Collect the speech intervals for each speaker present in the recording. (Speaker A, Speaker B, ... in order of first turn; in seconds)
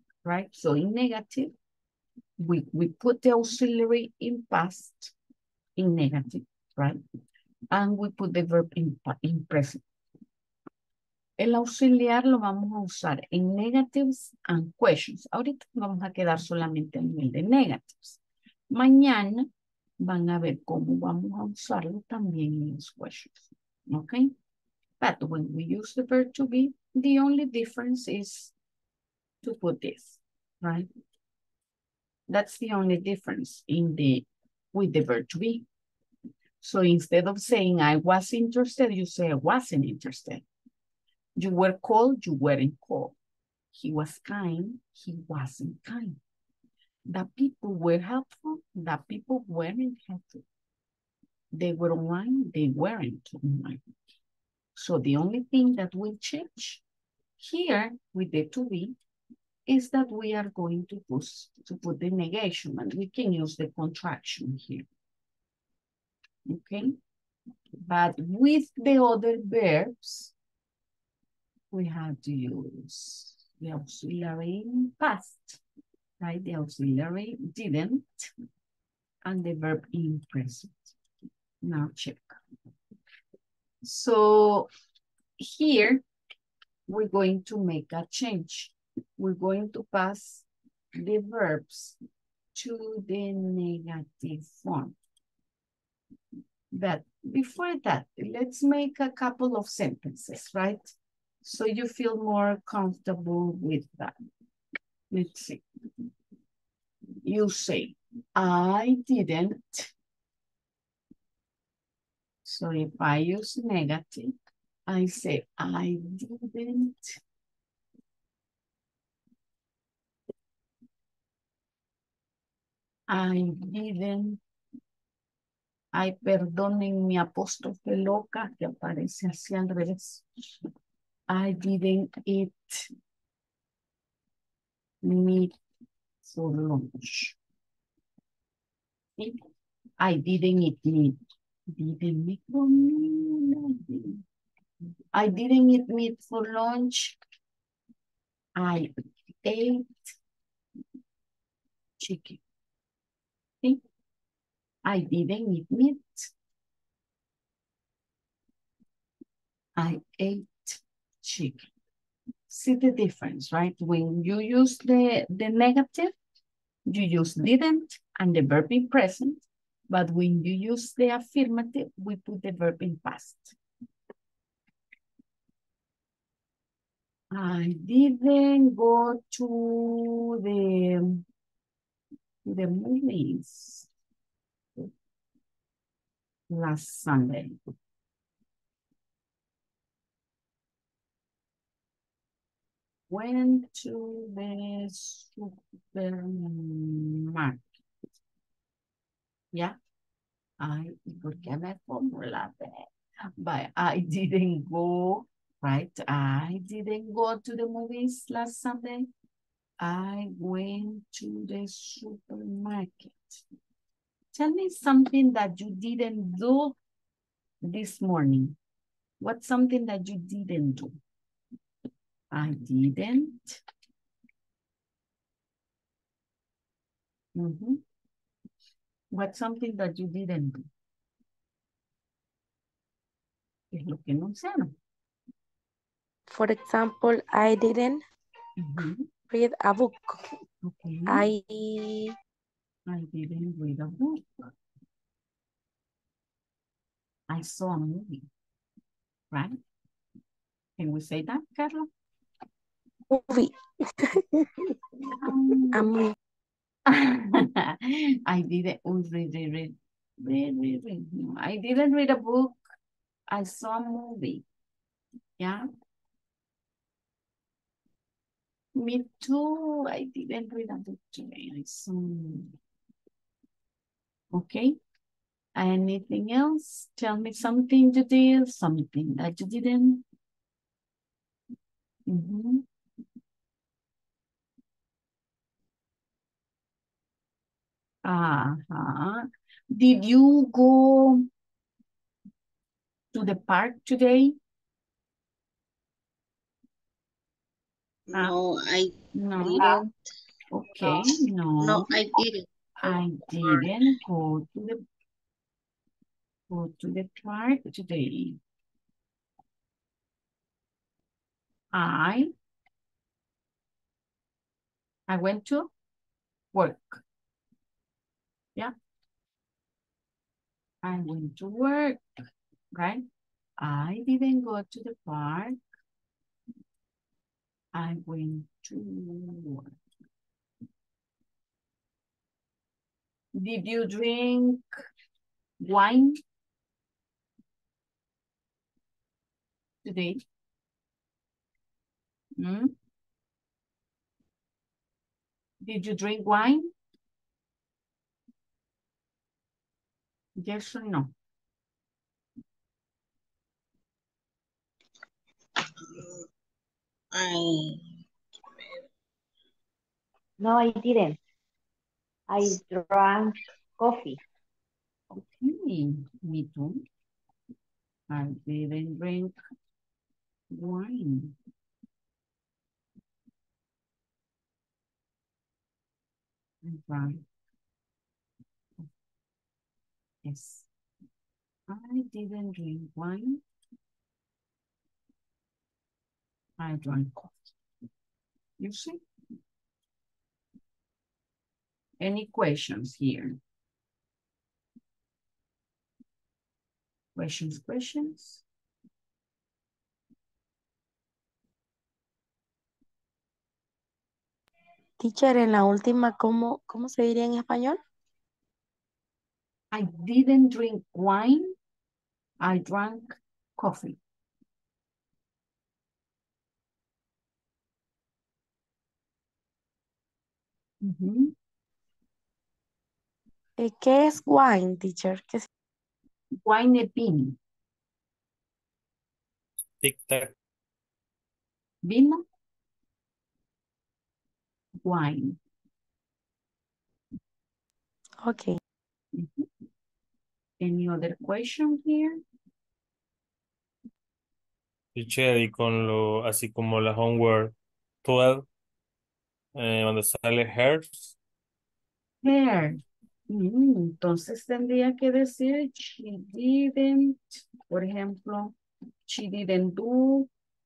Speaker A: 0.2-1.5, 2.4-5.1, 5.8-7.0, 7.7-9.8, 11.4-18.2, 18.7-19.5, 20.0-24.3, 25.0-28.5, 29.4-30.9, 32.3-35.6, 36.6-40.4, 41.4-43.1, 43.7-46.2, 47.1-50.4, 51.5-53.8, 54.8-56.8, 57.4-59.0, 59.7-64.8, 66.5-67.0, 67.8-70.3, 71.7-75.6, 76.2-78.3, 79.2-80.9, 81.6-82.4, 83.8-84.7, 85.4-86.0, 86.9-92.0, 92.5-95.0, 96.7-104.1, 105.1-105.6, 107.2-109.9, 112.4-114.3, 114.9-117.2, 123.1-124.4, 125.9-130.2, 131.3-132.9, 135.0-135.5, 136.2-137.4, 140.0-141.2, 141.7-144.2, 145.1-147.2, 148.6-148.9, 149.4-150.1, 152.0-152.4, 154.8-156.3, 159.8-161.7, 162.5-166.1, 166.9-173.6, 177.3-181.2, 182.4-183.9, 186.5-187.6, 193.1-197.6, 200.6-202.9, 203.4-209.1, 209.8-213.4, 214.3-216.8, 217.6-218.6, 219.2-220.9, 222.3-223.6, 227.3-227.8, 229.1-230.7, 233.7-234.7, 238.6-239.1, 240.6-241.2, 242.9-244.5, 247.3-248.3, 249.3-249.6, 250.8-251.9, 255.1-255.9, 256.9-262.6, 263.3-264.4, 265.4-265.6, 268.7-272.5, 274.3-274.8, 275.6-280.0, 282.1-282.6, 288.0-291.3, 293.1-294.4, 299.1-299.8, 300.5-301.9, 302.8-304.8, 306.5-308.4, 311.7-312.3, 315.1-315.7, 316.5-317.0, 320.8-322.0, 322.7-323.1, 323.6-325.6, 327.7-329.7, 333.3-334.6, 335.6-336.2, 339.8-340.2, 342.4-342.7, 345.6-346.7, 350.4-351.1, 365.1-366.8, 368.1-369.4, 370.5-371.4, 376.6-377.2, 380.2-380.7, 381.7-383.4, 386.6-387.4, 388.6-389.0, 392.0-393.4, 397.1-398.4, 409.7-411.5, 412.4-414.0, 420.8-421.3, 426.4-427.4, 431.8-432.2, 434.8-435.4, 439.1-439.5, 440.6-442.2, 452.2-458.5, 459.1-460.3
Speaker B: 236.3-238.0, 239.3-240.2, 241.1-242.1, 253.1-256.1, 405.0-407.8, 423.6-425.5, 438.2-438.6
Speaker C: 298.1-299.9, 300.8-301.1, 301.6-303.7, 355.9-356.2, 357.1-357.8
Speaker D: 360.4-361.2, 362.3-364.2
Speaker E: 429.8-430.3, 444.9-448.4, 449.5-451.1